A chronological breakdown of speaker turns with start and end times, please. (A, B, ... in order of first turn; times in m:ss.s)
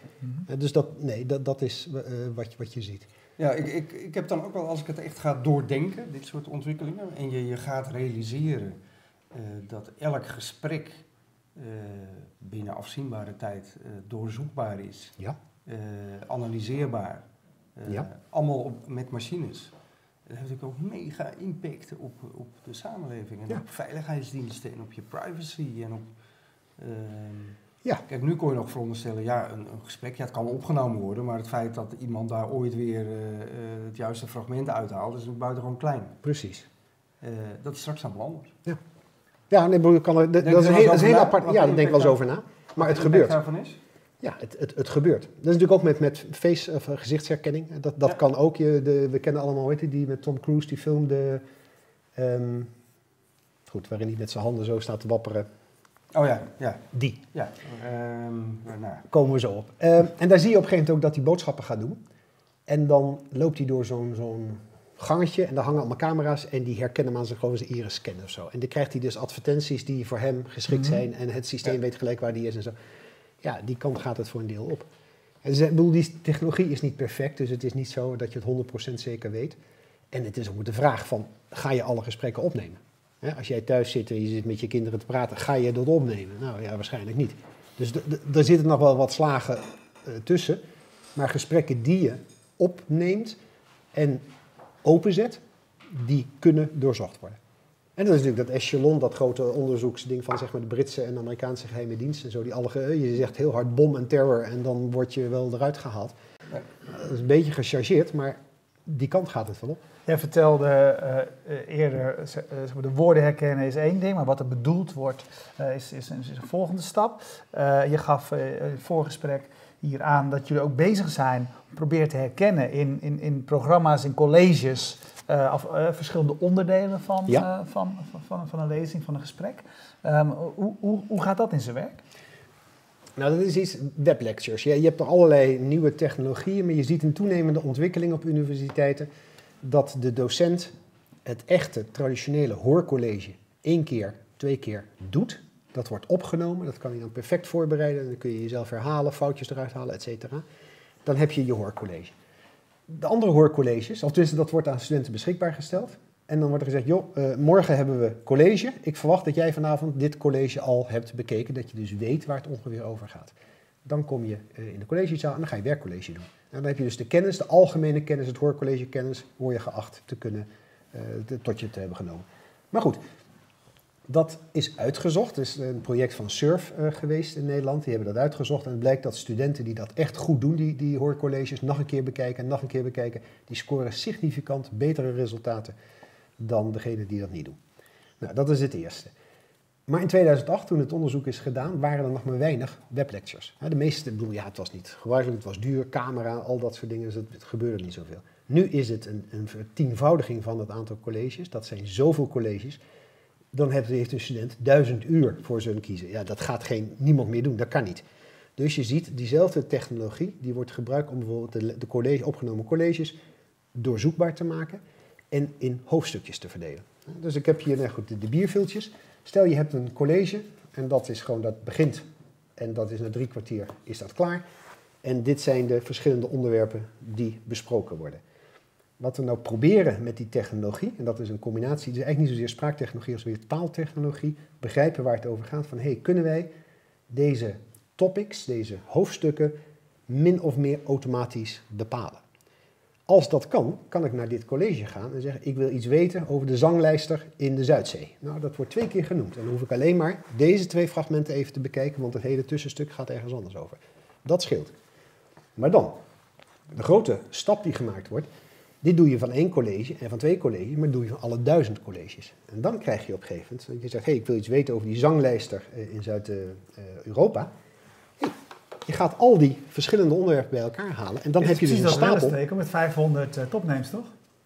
0:00.5-0:03.1 A
0:03.4-0:08.8 B
0:09.3-0:11.0 B
0:11.6-0:15.1 B
0:15.6-0:17.2 B
0:17.8-0:19.7 B
0:20.3-0:26.1 B
0:26.8-0:27.6 B
0:28.1-0:36.2 B
0:36.2-0:36.6 A
0:37.2-0:38.5 B
0:39.5-0:43.4 A
0:40.4-0:42.2 B
0:42.8-0:43.8 B
0:44.2-0:51.4 A
0:52.2-0:52.7 A
0:53.7-0:55.5 A
0:56.1-0:59.1 B
0:56.9-0:57.2 A
0:59.1-1:02.0 A
1:02.7-1:12.8 A
1:13.4-1:14.9 A
1:15.4-1:19.6 A
1:20.1-1:30.6 A
1:31.1-1:33.4 A
1:33.9-1:34.3 A
1:34.8-1:37.4 A
1:38.0-1:46.2 A
1:46.8-1:49.8 A
1:50.1-2:12.0 C
2:13.2-2:19.1 A
2:19.6-2:20.7 A
2:21.2-2:30.4 A
2:31.0-2:32.1 A
2:32.9-2:53.0 A
2:54.1-3:05.7 A
3:06.4-3:07.6 A
3:08.2-3:09.1 A
3:09.9-3:22.8 A
3:23.5-3:28.0 A
3:28.6-3:33.2 A
3:33.7-3:42.1 A
3:42.6-3:44.4 A
3:45.0-3:48.2 A
3:49.0-3:56.5 A
3:57.1-3:59.6 A
4:00.1-4:02.2 A
4:03.1-4:14.8 A
4:15.6-4:16.0 A
4:16.7-4:18.3 A
4:18.8-4:27.5 A
4:28.2-4:32.4 A
4:31.4-4:34.1 C